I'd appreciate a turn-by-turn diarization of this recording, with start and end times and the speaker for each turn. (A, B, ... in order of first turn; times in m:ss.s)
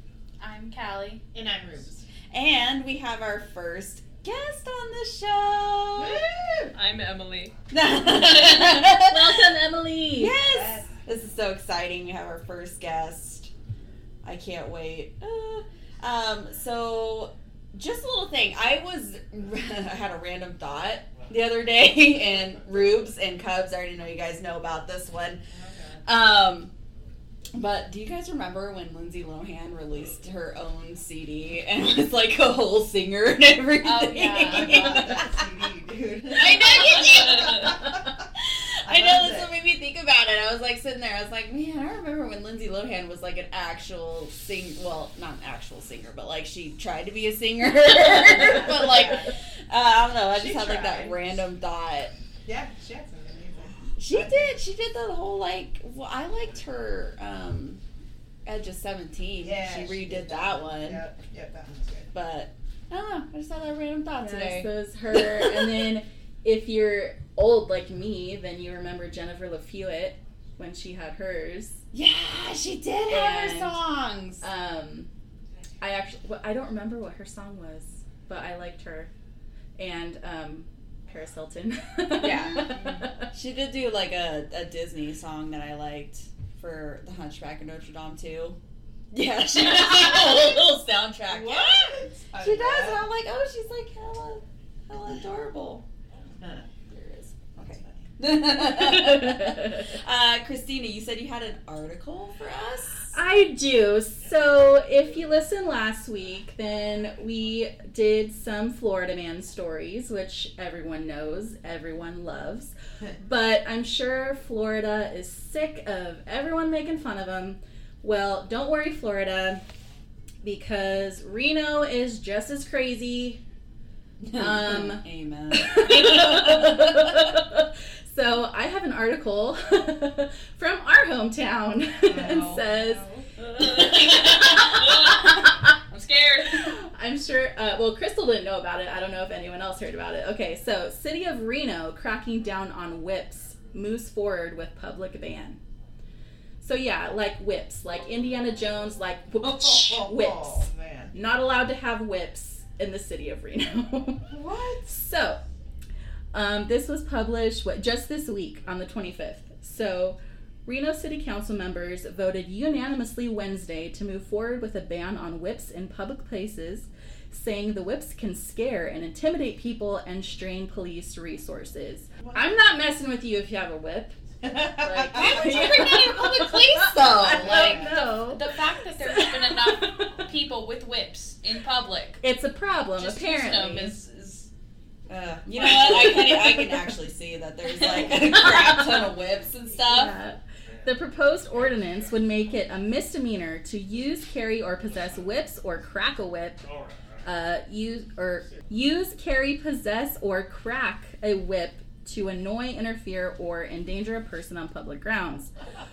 0:00.4-0:01.2 A
0:01.3-0:02.0 B
0:02.3-0:06.2 C
0:06.0-0:06.7 B
0:06.7-0:07.5 D
0:07.7-0:09.5 C
0:08.5-0:10.4 E
0:10.1-0:13.5 C
0:10.4-0:10.9 B
0:14.2-0:25.4 C
0:25.5-0:26.0 B
0:26.0-0:26.7 C
0:27.5-0:35.4 C
0:33.8-0:35.2 A
0:34.4-0:38.2 B
0:36.3-0:37.8 C
0:36.4-0:37.7 D
0:38.4-0:52.1 C
0:38.8-0:39.5 B
0:48.3-0:49.3 E
0:50.4-0:51.1 A
0:52.4-0:54.6 B
0:54.0-0:57.8 C
0:58.4-1:01.0 C
0:59.4-1:02.1 B
1:02.1-1:05.9 C
1:04.2-1:11.8 E
1:11.9-1:14.4 C
1:13.1-1:13.8 E
1:14.4-1:15.1 E
1:15.8-1:19.1 E
1:19.8-1:23.3 E
1:22.2-1:28.6 C
1:29.1-1:35.8 C
1:31.3-1:33.0 B
1:36.9-1:43.1 C
1:37.8-1:38.1 B
1:38.7-1:39.9 E
1:43.1-1:59.6 E
2:00.4-2:03.4 E
2:04.2-2:07.4 C
2:04.3-2:13.0 E
2:12.0-2:13.3 B
2:13.6-2:15.2 D
2:13.6-2:15.7 E
2:15.0-2:15.3 A
2:15.9-2:16.6 A
2:15.9-2:16.4 D
2:16.5-2:25.6 E
2:26.6-2:34.3 E
2:29.4-2:31.1 B
2:34.3-2:34.9 B
2:34.8-2:35.4 E
2:36.3-2:54.2 E
2:52.2-2:52.5 B
2:54.4-2:55.9 B
2:54.8-3:00.2 E
2:55.1-2:57.9 C
2:57.2-2:58.0 B
2:57.7-3:02.2 A
3:02.2-3:04.0 E
3:02.9-3:04.5 A
3:05.1-3:10.1 C
3:05.6-3:06.4 A
3:05.6-3:06.7 E
3:07.7-3:08.1 A
3:08.0-3:09.0 E
3:09.8-3:16.6 E
3:17.2-3:25.5 E